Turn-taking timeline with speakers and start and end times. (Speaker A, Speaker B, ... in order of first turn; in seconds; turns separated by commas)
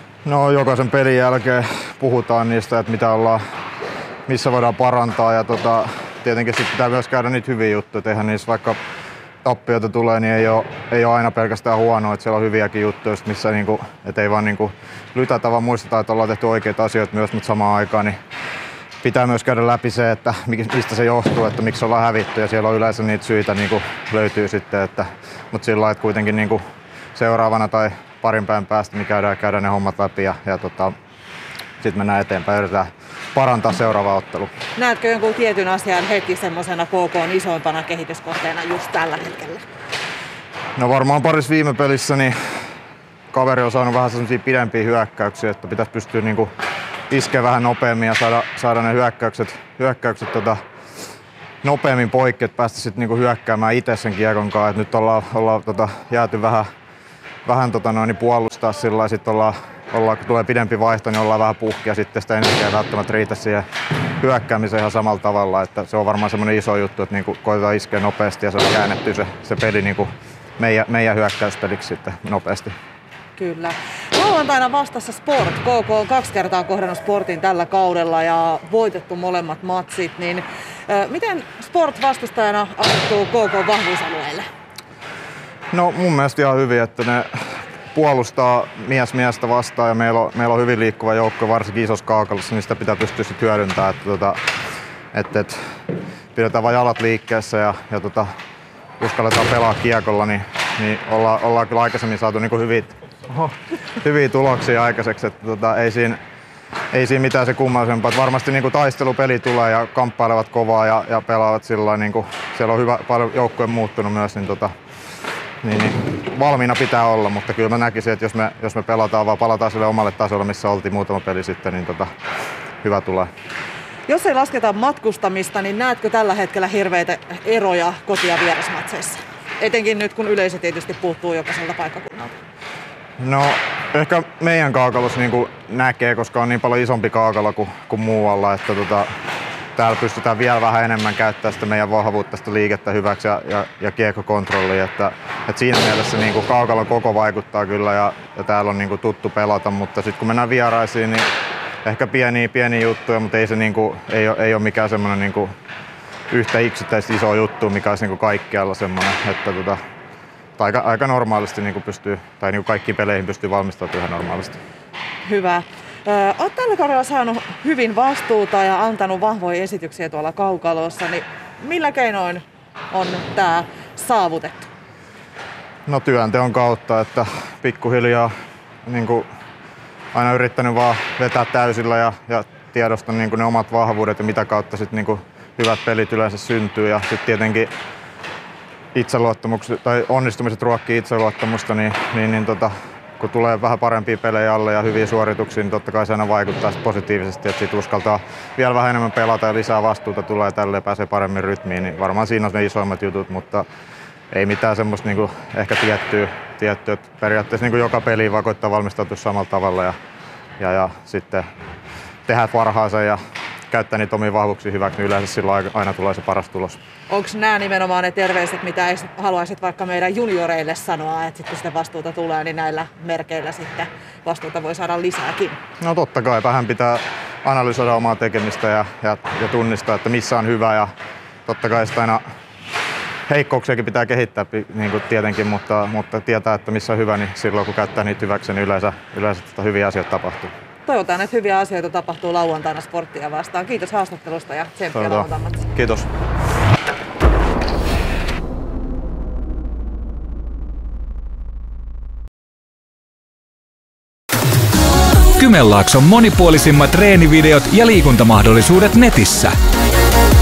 Speaker A: 0.2-3.4, Speaker A: 4.3-8.8, Speaker A: 9.4-18.2, Speaker A: 19.0-26.6, Speaker A: 27.1-30.9, Speaker A: 31.8-34.5, Speaker B: 34.8-39.6, Speaker A: 40.8-42.4, Speaker A: 43.3-46.5, Speaker A: 47.1-50.6, Speaker A: 51.6-56.7, Speaker A: 57.4-63.6, Speaker A: 64.2-72.7, Speaker B: 73.3-84.4, Speaker A: 85.7-94.4, Speaker A: 95.1-95.6, Speaker A: 96.3-98.3, Speaker A: 99.0-106.2, Speaker A: 106.9-114.7, Speaker A: 115.6-122.1, Speaker A: 122.8-123.3, Speaker B: 124.1-132.3, Speaker A: 133.2-139.1, Speaker A: 139.8-151.3, Speaker A: 151.8-155.5, Speaker A: 156.3-159.8, Speaker A: 160.6-164.6, Speaker B: 165.2-174.7, Speaker A: 175.8-178.3, Speaker A: 178.8-179.3, Speaker A: 180.1-187.7, Speaker A: 188.9-203.7, Speaker A: 204.3-209.9, Speaker A: 210.6-211.4, Speaker A: 212.3-216.8, Speaker B: 217.1-225.6, Speaker A: 225.8-230.9, Speaker A: 231.4-232.2, Speaker A: 233.3-240.5, Speaker B: 240.8-245.7, Speaker A: 244.9-246.1, Speaker C: 255.4-259.5